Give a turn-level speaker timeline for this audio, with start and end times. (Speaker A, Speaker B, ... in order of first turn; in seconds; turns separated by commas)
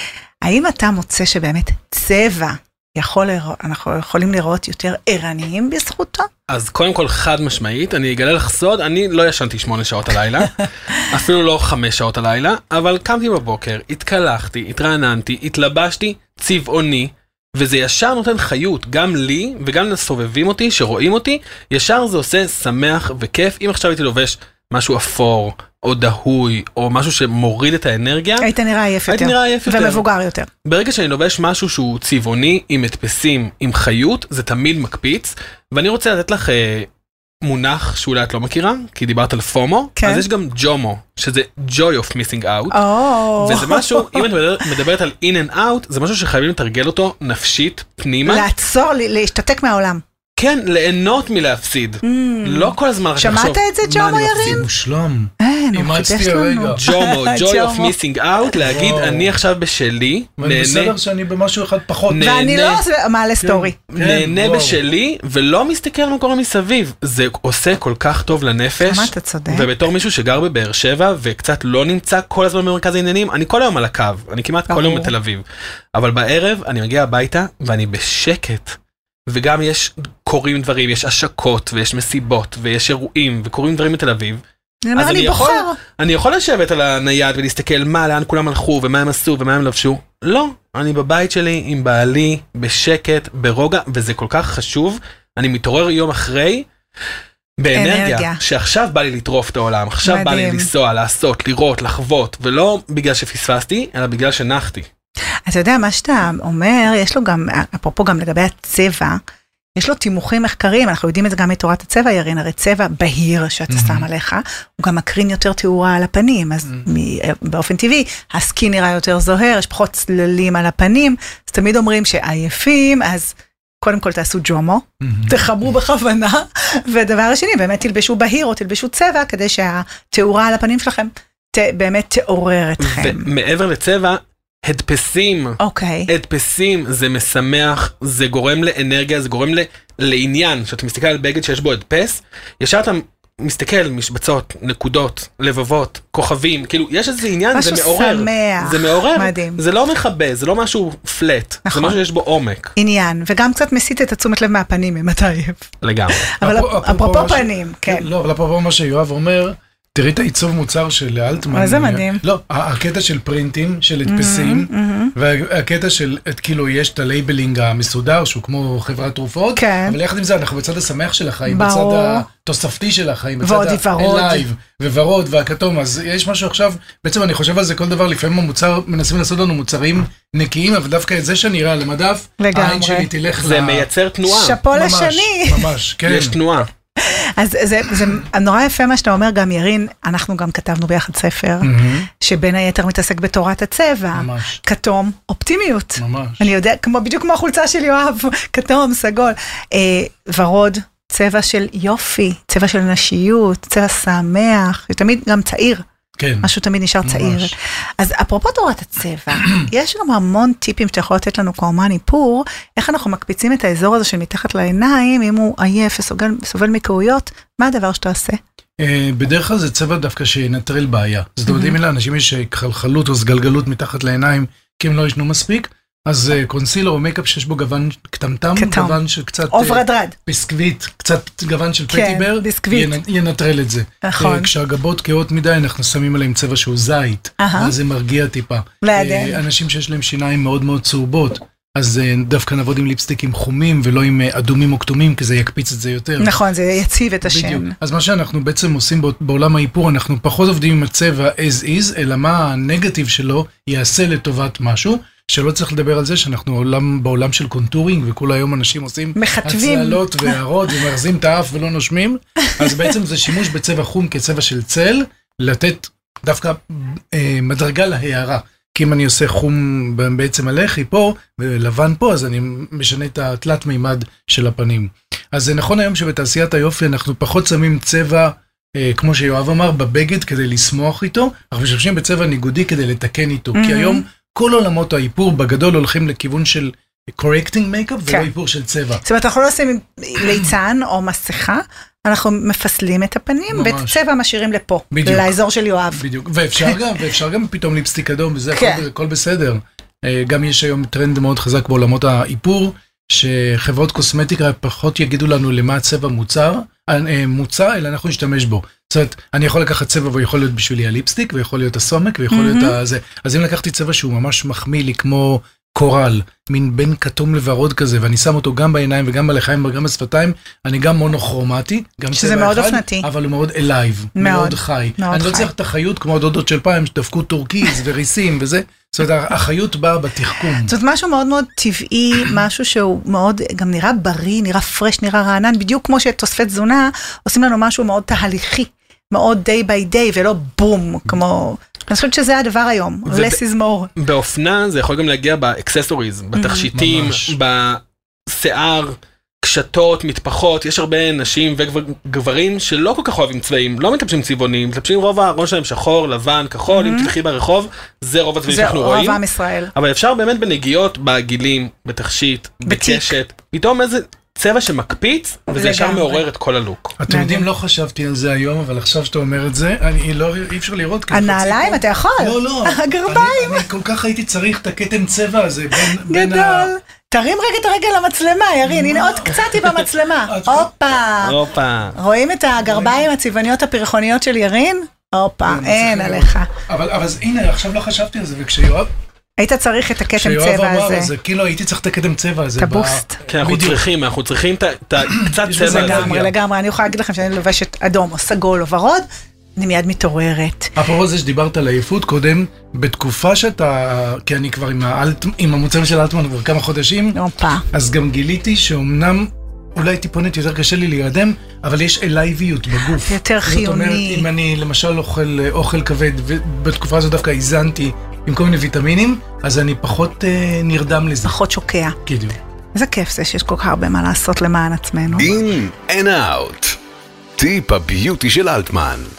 Speaker A: 0.4-6.3, Speaker B: 6.5-28.5, Speaker A: 28.4-30.5, Speaker B: 29.1-30.1, Speaker B: 30.6-36.9, Speaker B: 37.4-42.8, Speaker A: 40.0-40.2, Speaker A: 42.7-44.3, Speaker B: 43.4-48.5, Speaker A: 48.2-50.0, Speaker B: 50.4-54.6, Speaker A: 52.0-54.7, Speaker C: 54.2-56.8, Speaker A: 55.4-57.9, Speaker B: 56.8-60.9, Speaker C: 58.6-59.4, Speaker C: 60.4-62.4, Speaker B: 62.1-62.8, Speaker A: 62.2-63.8, Speaker C: 63.4-64.8, Speaker B: 63.9-84.4, Speaker A: 68.8-69.7, Speaker A: 74.7-75.1, Speaker A: 84.8-85.8, Speaker B: 85.0-96.7, Speaker B: 97.6-104.9, Speaker A: 97.7-98.4, Speaker A: 100.0-100.7, Speaker A: 105.5-109.2, Speaker A: 109.8-133.3, Speaker C: 113.7-114.1, Speaker C: 125.0-125.4, Speaker B: 132.8-152.7, Speaker A: 135.6-136.1, Speaker A: 147.5-149.6, Speaker A: 151.7-152.0, Speaker A: 152.8-155.7, Speaker B: 155.8-156.3, Speaker A: 156.3-158.1, Speaker C: 156.4-183.9, Speaker A: 161.5-162.2, Speaker A: 164.1-165.2, Speaker A: 169.6-170.0, Speaker A: 171.5-172.2, Speaker A: 173.4-174.4, Speaker A: 182.4-183.1, Speaker B: 183.4-184.6, Speaker A: 184.3-185.7, Speaker C: 184.7-186.4, Speaker B: 186.1-186.7, Speaker A: 187.0-205.8, Speaker C: 191.6-192.1, Speaker C: 194.1-194.6, Speaker C: 196.0-196.5, Speaker C: 206.2-206.5, Speaker A: 206.4-218.4, Speaker C: 207.0-207.5, Speaker C: 218.8-246.4, Speaker A: 221.5-221.8, Speaker A: 228.6-229.0, Speaker A: 229.5-230.2, Speaker A: 231.9-232.9, Speaker A: 234.0-234.5, Speaker A: 237.4-237.7, Speaker A: 238.8-239.4, Speaker A: 246.2-247.7, Speaker C: 247.2-289.0, Speaker A: 259.2-260.4, Speaker A: 283.6-284.0, Speaker A: 289.0-296.0, Speaker C: 290.2-290.5, Speaker C: 293.5-294.0, Speaker C: 294.9-295.3, Speaker C: 296.0-330.7, Speaker A: 298.5-298.8, Speaker A: 312.3-312.8, Speaker A: 322.1-323.1, Speaker A: 324.2-325.5, Speaker A: 330.6-343.9, Speaker B: 343.1-343.4, Speaker B: 344.0-359.2, Speaker A: 346.4-346.7, Speaker C: 346.7-347.4, Speaker A: 356.7-357.1, Speaker A: 358.5-359.7, Speaker B: 359.7-367.0, Speaker A: 362.6-363.1, Speaker A: 365.5-366.2, Speaker C: 367.0-376.7, Speaker A: 367.1-367.4, Speaker A: 371.1-373.6, Speaker A: 376.0-381.4, Speaker C: 378.6-380.7, Speaker B: 381.2-382.0, Speaker A: 382.0-386.5, Speaker C: 382.6-383.1, Speaker C: 385.4-388.9, Speaker A: 389.4-391.1, Speaker C: 390.1-393.9, Speaker A: 392.6-393.2, Speaker B: 393.3-396.2, Speaker C: 395.2-396.4, Speaker A: 395.6-400.7, Speaker C: 400.8-407.2, Speaker A: 407.1-407.6, Speaker C: 407.7-421.4, Speaker A: 413.1-414.3, Speaker A: 421.2-422.0, Speaker C: 422.1-422.4, Speaker A: 422.8-425.3, Speaker D: 425.1-426.8, Speaker D: 427.4-429.1